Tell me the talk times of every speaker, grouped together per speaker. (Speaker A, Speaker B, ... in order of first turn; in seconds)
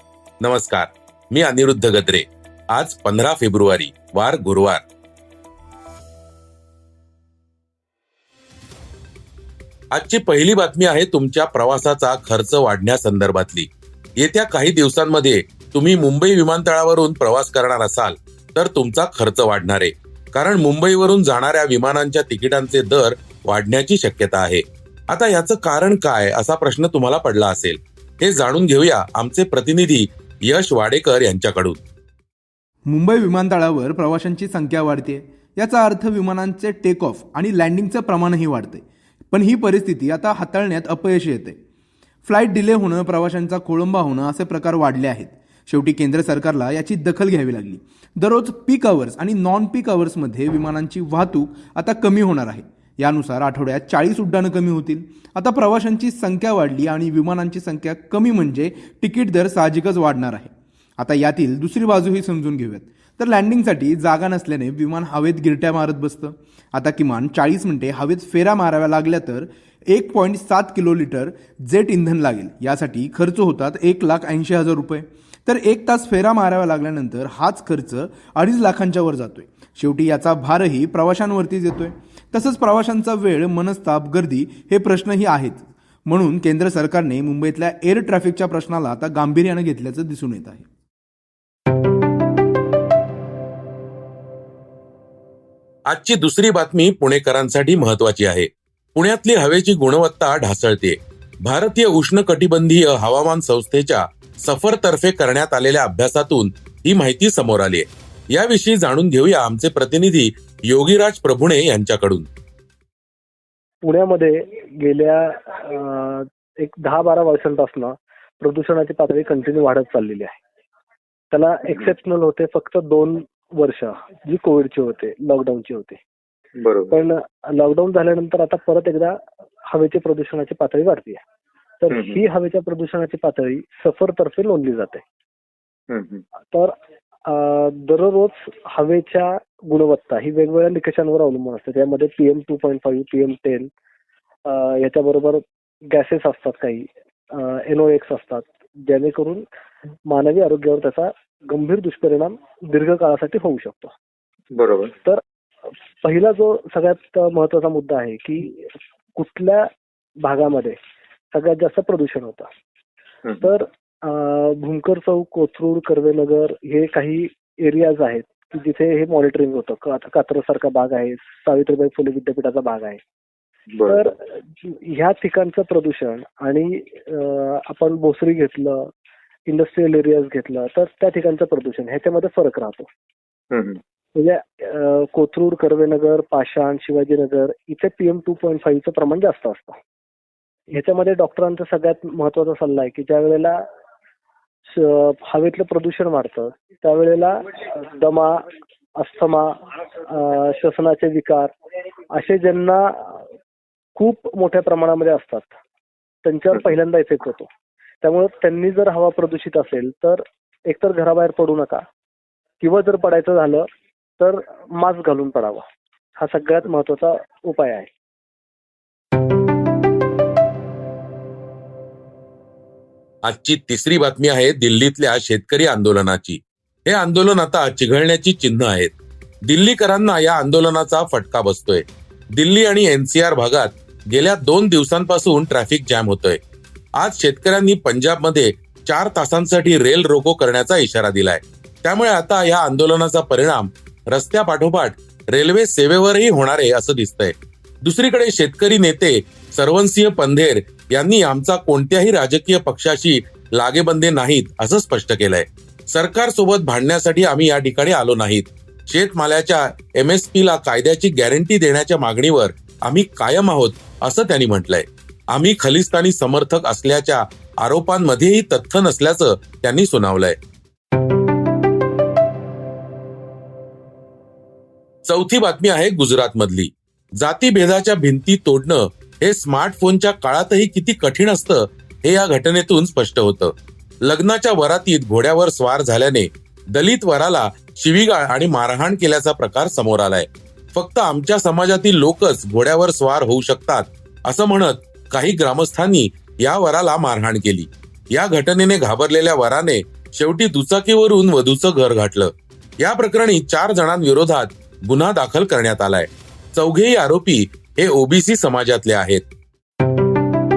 Speaker A: 0.4-4.8, 9.9-31.8, 95.9-112.3, 223.2-236.4, 237.0-270.4, 275.1-309.2
Speaker B: 32.9-41.6, 42.3-90.7
Speaker C: 113.8-120.4, 121.3-126.0, 126.9-131.2, 131.8-135.0, 137.2-143.7, 144.4-149.5, 150.1-153.9, 156.0-159.7, 160.2-160.8, 161.3-162.5, 163.4-173.0, 173.9-178.9, 179.5-182.9, 184.2-189.8, 190.7-193.6, 194.7-198.4, 199.0-201.5, 202.1-203.2, 204.0-205.5, 206.2-207.5, 208.0-211.8, 212.6-213.7, 214.2-215.7, 216.2-217.9
Speaker D: 126.6-127.0, 131.9-132.2, 135.9-136.2, 154.5-154.9, 173.7-174.1, 183.5-183.8